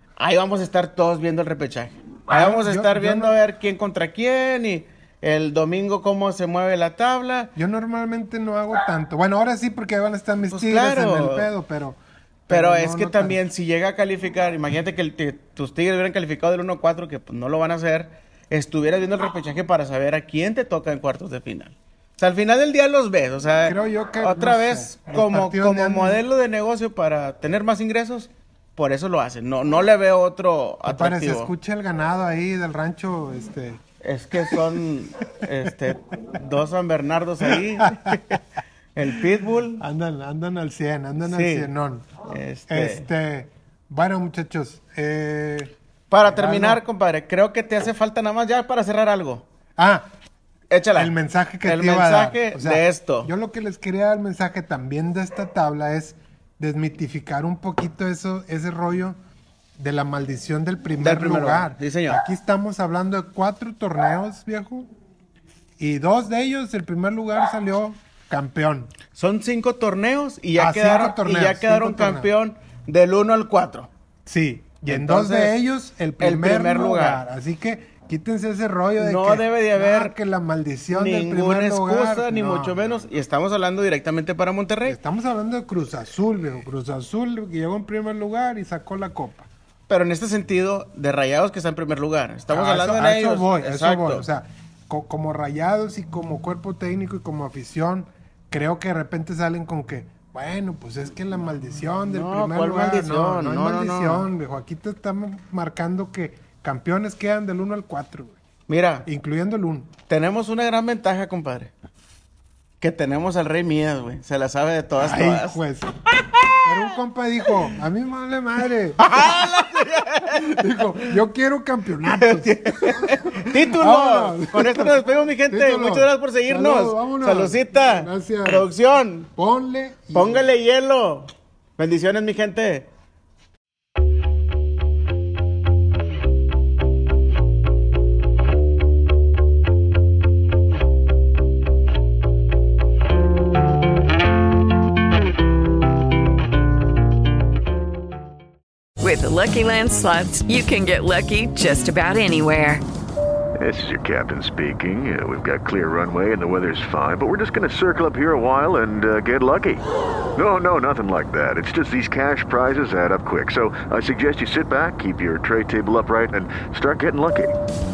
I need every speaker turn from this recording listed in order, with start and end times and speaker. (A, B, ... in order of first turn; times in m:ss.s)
0:00.2-0:07.5 A
0:02.3-0:03.4 B
0:07.6-0:13.4 B
0:10.5-0:11.5 A
0:12.5-0:31.5 A
0:23.6-0:26.2 B
0:30.9-0:33.8 B
0:34.0-0:38.4 A
0:34.3-0:34.7 B
0:35.7-0:35.9 B
0:37.4-0:38.4 B
0:39.0-0:39.8 A
0:39.8-0:42.1 B
0:41.2-0:41.7 A
0:42.3-0:43.1 A
0:42.7-0:46.8 B
0:46.1-0:49.4 A
0:49.8-0:50.1 B
0:50.7-0:53.3 A
0:51.0-0:59.2 B
0:59.8-1:04.9 B
1:01.0-1:02.2 A
1:05.8-1:08.9 B
1:09.1-1:13.9 A
1:10.6-1:12.3 B
1:14.3-1:23.0 B
1:14.9-1:15.6 A
1:16.2-1:17.2 A
1:19.0-1:20.2 A
1:20.9-1:25.0 A
1:24.9-1:29.5 B
1:29.9-1:34.3 A
1:32.5-1:48.4 B
1:41.8-1:44.3 A
1:48.7-1:49.1 A
1:49.0-1:49.9 B
1:50.1-1:51.7 A
1:52.8-1:55.6 A
1:55.0-1:55.9 B
1:56.1-1:57.0 A
1:56.6-2:08.7 B
1:59.0-2:01.2 A
2:02.2-2:09.3 A
2:09.4-2:10.5 B
2:10.1-2:12.9 A
2:29.0-2:32.8 C
2:33.6-2:39.8 D
2:40.4-2:47.6 D